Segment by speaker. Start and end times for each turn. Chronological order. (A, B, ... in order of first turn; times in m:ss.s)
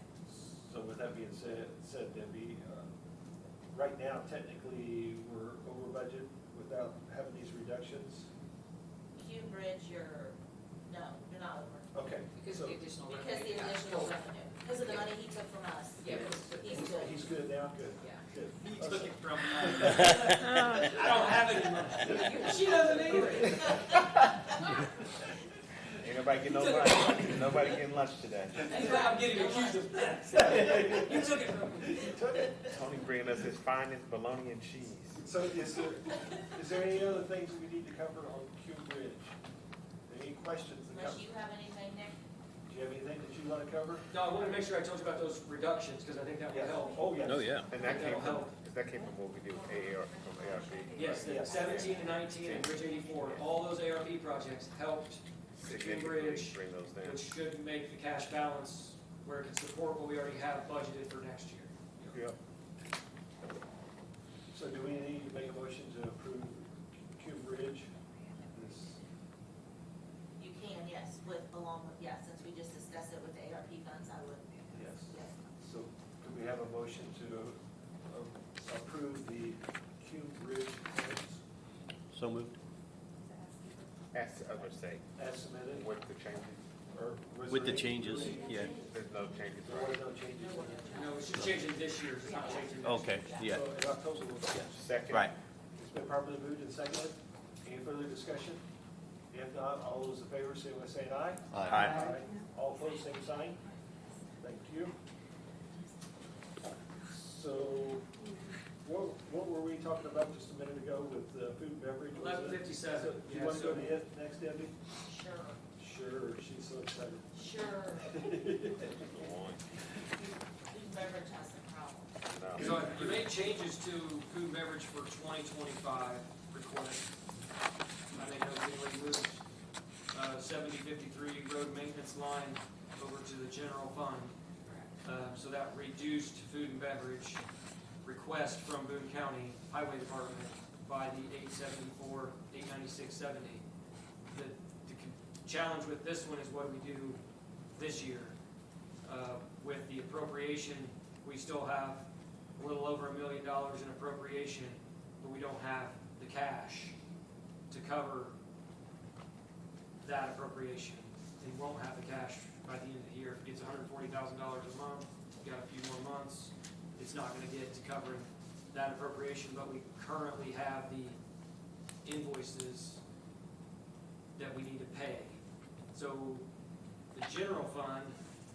0:00.3-0:02.9 A
0:03.7-0:08.3 A
0:09.2-0:10.4 B
0:10.9-0:11.9 B
0:11.9-0:12.9 A
0:12.4-0:14.2 C
0:13.1-0:17.2 B
0:14.8-0:15.1 C
0:16.0-0:17.0 C
0:16.1-0:20.1 A
0:18.7-0:23.8 D
0:19.1-0:20.2 C
0:22.1-0:23.7 C
0:25.9-0:28.8 E
0:26.6-0:27.6 D
0:28.6-0:32.2 D
0:28.7-0:29.9 B
0:30.4-0:31.2 A
0:31.9-0:32.6 A
0:32.6-0:35.2 E
0:35.2-0:39.3 A
0:40.1-0:41.3 A
0:40.9-0:42.2 B
0:42.7-0:44.1 A
0:44.1-0:47.2 D
0:46.5-0:47.7 A
0:47.3-0:47.7 F
0:47.7-0:53.4 E
0:47.8-0:48.2 C
0:47.8-0:48.6 D
0:50.1-0:52.9 C
0:51.0-1:01.8 D
0:51.1-0:52.0 A
0:55.6-0:57.2 E
1:02.0-1:02.4 E
1:04.5-1:07.9 A
1:08.5-1:09.0 A
1:10.4-1:15.3 B
1:14.7-1:21.4 A
1:22.1-1:22.6 F
1:23.3-1:23.8 C
1:24.1-1:25.0 E
1:25.2-1:25.9 A
1:25.7-1:26.6 E
1:26.9-1:28.8 A
1:27.5-1:28.8 F
1:28.2-1:29.3 C
1:28.7-1:30.1 E
1:29.6-1:31.1 A
1:30.4-1:31.4 B
1:30.9-1:33.3 D
1:32.2-1:33.5 B
1:32.8-1:33.6 F
1:33.4-1:34.8 A
1:34.7-1:35.3 E
1:35.8-1:38.6 A
1:39.3-1:43.6 A
1:41.5-1:42.1 F
1:41.6-1:42.1 E
1:44.4-1:45.0 A
1:47.1-1:48.1 A
1:48.8-1:54.8 A
1:52.1-1:54.0 D
1:55.0-1:55.6 B
1:55.8-1:57.5 A
1:57.3-1:58.3 B
1:58.1-1:59.0 A
1:58.9-1:59.6 E
2:00.2-2:02.1 B
2:02.3-2:02.7 E
2:02.6-2:07.1 D
2:02.6-2:02.9 A
2:08.1-2:09.4 D
2:10.1-2:14.3 D
2:15.0-2:17.4 D
2:18.0-2:23.6 D
2:24.3-2:28.4 D
2:29.0-2:37.0 D
2:37.7-2:38.4 D
2:40.0-2:51.2 D
2:52.0-2:53.0 D
2:54.4-2:55.4 D
2:55.9-2:56.5 D
2:57.1-2:58.2 D